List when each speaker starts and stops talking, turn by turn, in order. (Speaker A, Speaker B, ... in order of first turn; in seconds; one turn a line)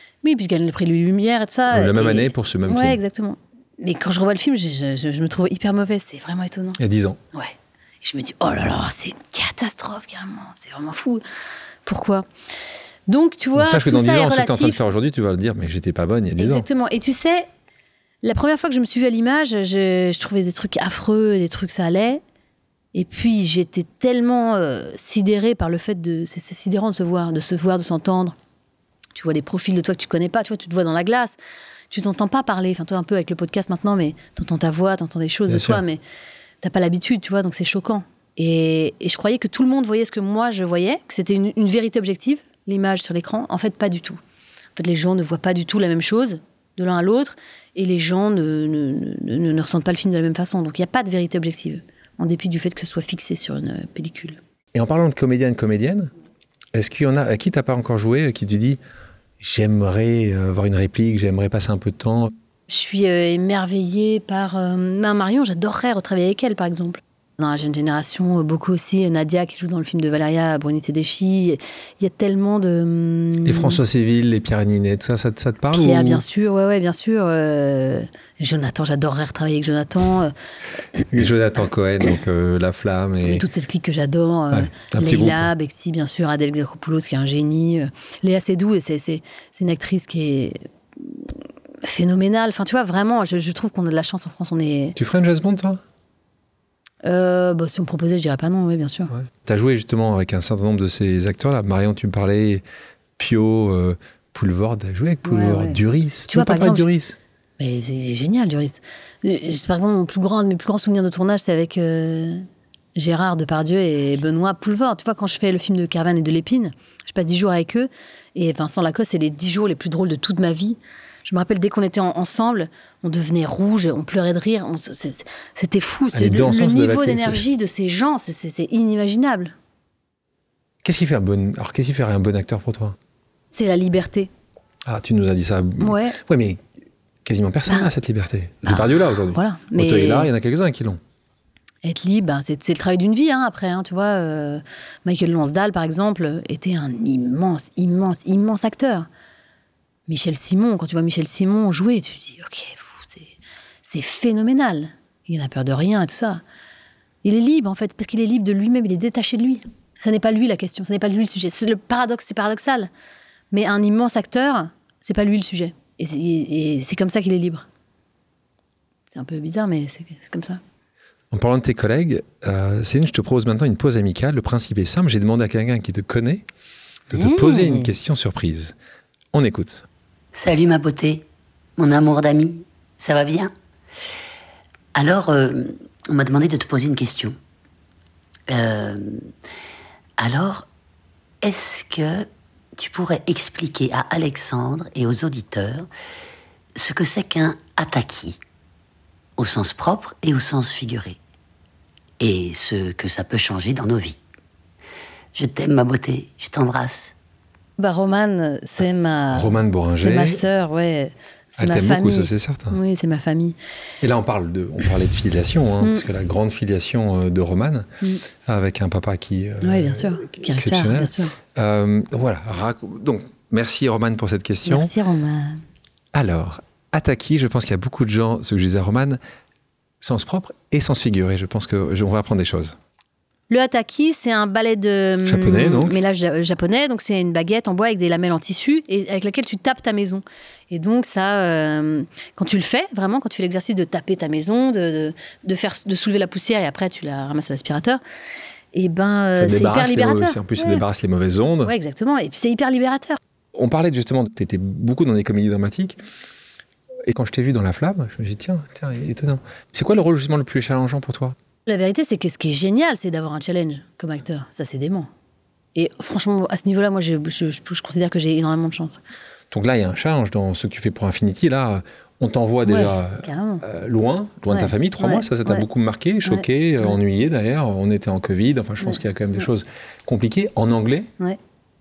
Speaker A: 0.2-6.8
Speaker B: 1.7-3.0
Speaker B: 6.8-7.2
Speaker A: 7.3-11.2
Speaker A: 11.8-12.3
Speaker A: 13.1-14.8
Speaker B: 13.6-16.6
Speaker A: 16.4-17.5
Speaker A: 18.2-22.2
Speaker A: 22.9-28.3
Speaker A: 29.1-31.4
Speaker A: 31.9-36.0
Speaker B: 35.5-35.8
Speaker A: 36.6-44.2
Speaker A: 44.8-54.4
Speaker B: 54.7-56.1
Speaker B: 56.7-58.8
Speaker B: 59.4-62.3
Speaker A: 62.7-73.8
Speaker B: 73.4-76.2
Speaker A: 75.7-80.3
Speaker B: 81.1-83.4
Speaker A: 83.2-95.0
Speaker B: 84.5-85.5
Speaker B: 95.0-95.8
Speaker A: 97.0-99.1
Speaker B: 99.1-102.6
Speaker B: 103.2-107.2
Speaker A: 105.2-106.9
Speaker A: 107.6-112.4
Speaker A: 113.0-129.5
Speaker B: 126.1-127.4
Speaker B: 130.8-133.0
Speaker A: 133.5-134.3
Speaker B: 134.8-136.6
Speaker A: 135.8-136.2
Speaker B: 137.2-141.0
Speaker A: 138.6-140.3
Speaker A: 141.8-149.1
Speaker A: 150.1-153.3
Speaker A: 153.8-156.4
Speaker A: 157.2-162.9
Speaker A: 163.5-167.6
Speaker A: 169.1-170.6
Speaker B: 171.3-176.4
Speaker B: 177.1-178.7
Speaker A: 177.1-177.8
Speaker B: 179.3-179.8
Speaker C: 180.3-183.5
Speaker C: 184.9-187.4
Speaker C: 188.5-189.3
Speaker C: 190.2-190.7
Speaker C: 191.4-195.9
Speaker C: 196.8-198.4
Speaker C: 199.4-201.2
Speaker C: 202.2-204.2
Speaker C: 205.3-207.1
Speaker A: 207.8-213.6
Speaker B: 209.3-210.4
Speaker B: 211.6-212.8
Speaker B: 214.0-224.9
Speaker A: 215.8-216.1
Speaker A: 219.6-221.3
Speaker A: 224.7-225.6
Speaker B: 226.1-229.2
Speaker B: 230.0-232.8
Speaker A: 233.5-248.0
Speaker B: 235.2-236.0
Speaker A: 248.7-250.8
Speaker B: 249.3-251.7
Speaker A: 251.6-253.2
Speaker B: 253.5-256.0
Speaker B: 257.1-261.4
Speaker A: 261.6-265.1
Speaker A: 265.7-269.0
Speaker B: 269.5-281.1
Speaker A: 272.6-273.6
Speaker A: 274.5-275.6
Speaker A: 276.2-277.0